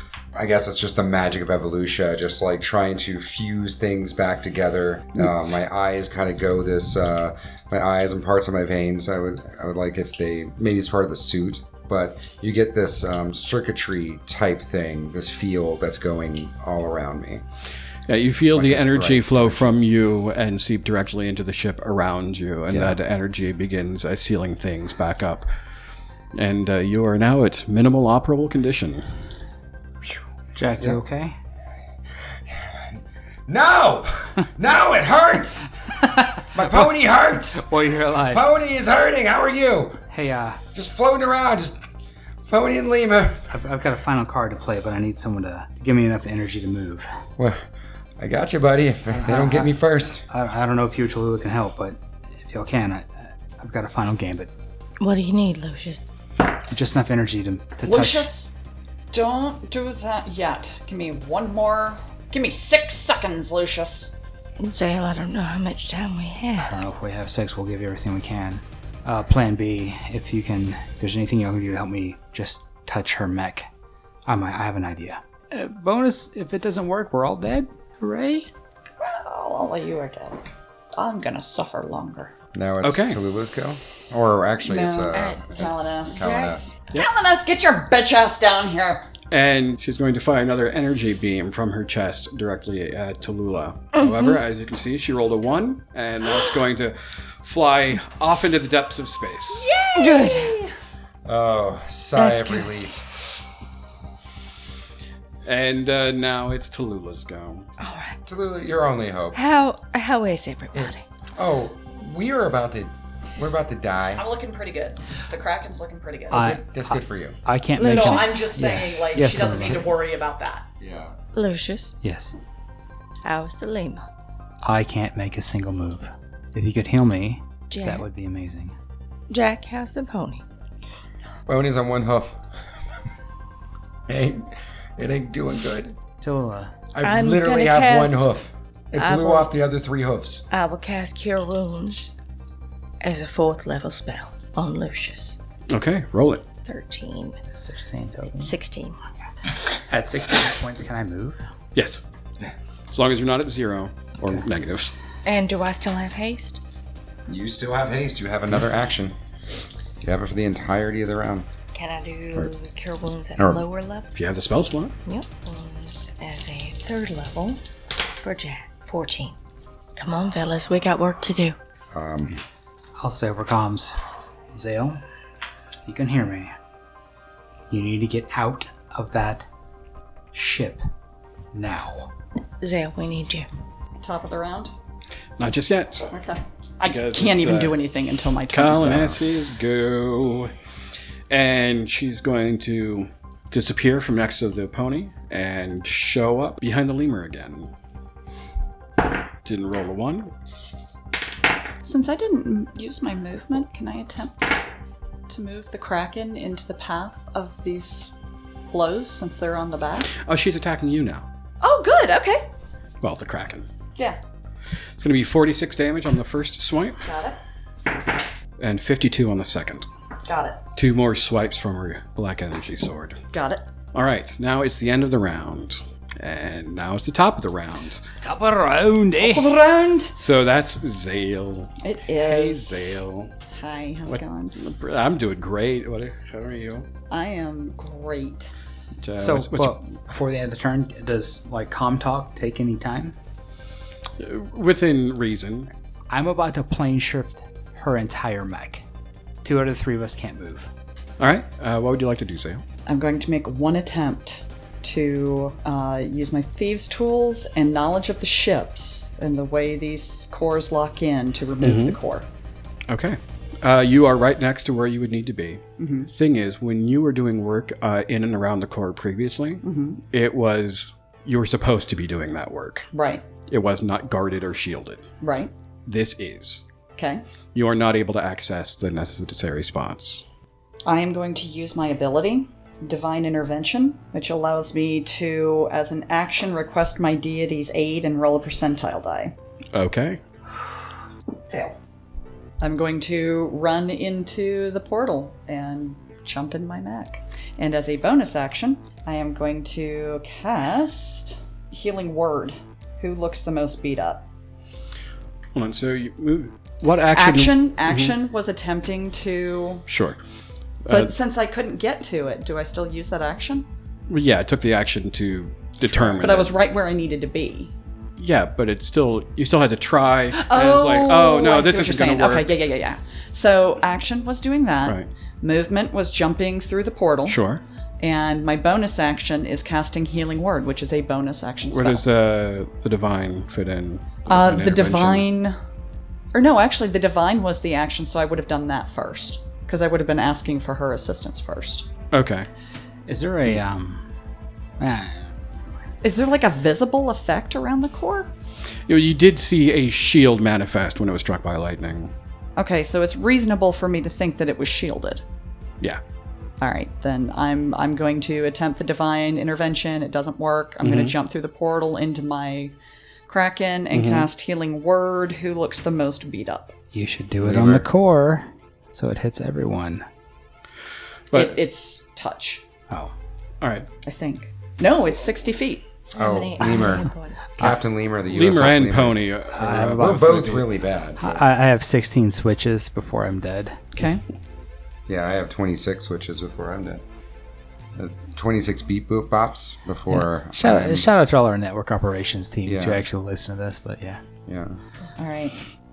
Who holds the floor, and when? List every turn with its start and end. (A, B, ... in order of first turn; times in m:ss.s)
0:00.3-0:17.4 A
0:18.1-0:25.5 B
0:18.5-0:19.7 A
0:22.7-0:23.0 A
0:26.3-0:29.1 B
0:30.5-0:31.4 C
0:32.5-0:40.0 A
0:36.0-0:36.9 C
0:37.5-0:38.5 C
0:40.1-0:40.6 C
0:40.7-0:41.8 A
0:42.5-0:43.4 A
0:43.5-0:47.1 C
0:47.4-0:47.6 A
0:48.2-0:50.2 A
0:49.1-0:54.5 C
0:55.0-0:56.1 D
0:56.7-0:58.3 C
0:57.8-0:58.5 E
0:59.1-1:04.1 E
1:04.6-1:06.8 D
1:06.6-1:13.7 C
1:14.2-1:18.5 C
1:19.0-1:22.3 E
1:22.5-1:26.7 A
1:22.8-1:23.2 B
1:24.6-1:26.3 E
1:25.1-1:26.6 D
1:26.9-1:29.1 E
1:29.3-1:39.7 B
1:34.0-1:34.3 D
1:39.5-1:40.7 E
1:39.9-1:40.6 D
1:41.2-1:43.0 A
1:42.1-1:42.7 D
1:45.4-1:47.7 B
1:47.8-1:48.2 D
1:48.2-1:49.4 A
1:49.3-1:51.0 D
1:50.7-1:54.2 A
1:54.2-1:56.5 E
1:56.3-1:59.9 C
1:56.3-1:57.4 A
1:57.8-1:58.6 D
1:57.8-2:00.6 E
2:00.8-2:01.2 A
2:01.3-2:02.0 D
2:02.0-2:02.3 C
2:03.2-2:04.0 D
2:04.6-2:08.7 C
2:07.7-2:08.0 D
2:09.3-2:10.4 D
2:11.5-2:12.4 A
2:14.1-2:16.0 A
2:16.2-2:16.7 C
2:16.9-2:20.4 A
2:17.0-2:18.3 D
2:19.0-2:19.5 D
2:20.5-2:22.2 D
2:23.0-2:25.4 D
2:25.7-2:26.4 B
2:26.6-2:27.4 D
2:27.5-2:28.5 C
2:28.3-2:29.0 D
2:29.8-2:31.4 C
2:31.7-2:32.0 B
2:32.9-2:34.9 B
2:35.2-2:36.6 D
2:37.3-2:39.1 A
2:40.0-2:41.5 A
2:41.7-2:44.1 D
2:43.4-2:43.6 A
2:44.1-2:44.9 B
2:45.0-2:47.6 D
2:48.2-2:49.3 D
2:50.0-2:51.6 D
2:51.9-2:52.4 A
2:53.0-2:54.0 C
2:54.5-2:55.0 C
2:55.8-2:56.5 C
2:57.7-2:59.5 C
3:00.3-3:00.8 C
3:01.5-3:02.1 C
3:02.6-3:03.5 D
3:04.0-3:04.7 E
3:05.4-3:06.1 B
3:06.1-3:09.1 E
3:06.8-3:07.8 B
3:08.5-3:10.5 B
3:11.3-3:17.7 B
3:19.4-3:20.3 B
3:21.8-3:24.6 E
3:25.3-3:28.2 E
3:28.7-3:30.1 E
3:30.2-3:31.2 B
3:31.6-3:32.4 E
3:33.0-3:33.6 B
3:35.0-3:37.0 B
3:37.0-3:37.4 E
3:38.6-3:39.8 B
3:40.2-3:40.6 E
3:40.8-3:43.2 B
3:43.3-3:43.6 E
3:43.9-3:48.0 B
3:48.2-3:49.5 C
3:49.2-3:50.2 E
3:50.2-3:53.3 B
3:51.8-3:52.8 E
3:53.5-3:54.6 E
3:54.1-3:56.9 B
3:57.1-3:58.5 E
3:59.0-3:59.8 B
3:59.2-4:03.1 C
4:04.2-4:05.7 B
4:06.1-4:08.8 C
4:09.4-4:10.7 C
4:11.2-4:12.6 B
4:12.9-4:22.2 E
4:21.6-4:22.0 B
4:22.9-4:32.9 B
4:25.8-4:26.1 E
4:29.6-4:30.0 E
4:32.9-4:33.2 E
4:33.5-4:35.1 B
4:35.2-4:35.5 E
4:35.8-4:36.6 B
4:37.0-4:37.2 E
4:37.5-4:40.2 B
4:40.8-4:49.3 E
4:49.7-4:50.2 B
4:51.5-4:51.8 E
4:52.6-5:04.2 E
5:05.5-5:08.1 B
5:07.1-5:09.8 E
5:09.9-5:10.2 B
5:10.8-5:11.1 B
5:10.9-5:13.7 E
5:14.1-5:16.5 B
5:16.2-5:17.7 E
5:18.2-5:22.5 B
5:20.3-5:27.4 E
5:27.3-5:27.6 B
5:28.0-5:32.0 E
5:31.7-5:35.3 B
5:34.2-5:35.6 E
5:36.3-5:41.9 E
5:42.1-5:42.5 B
5:43.1-5:44.0 C
5:44.8-5:45.5 C
5:46.0-5:48.3 E
5:48.9-5:52.1 B
5:52.6-5:55.2 E
5:56.6-6:02.7 E
6:00.8-6:01.1 B
6:03.3-6:06.7 E
6:03.9-6:04.3 B
6:06.9-6:10.0 C
6:07.5-6:07.8 A
6:11.3-6:11.6 B
6:11.3-6:12.6 E
6:13.6-6:13.9 B
6:14.0-6:15.8 E
6:16.1-6:17.6 D
6:16.1-6:21.4 A
6:18.3-6:20.7 B
6:19.5-6:20.6 C
6:21.2-6:23.8 C
6:24.0-6:24.2 E
6:25.1-6:27.0 A
6:27.9-6:31.1 A
6:30.1-6:34.2 C
6:32.6-6:33.0 A
6:34.5-6:34.8 A
6:35.2-6:35.6 E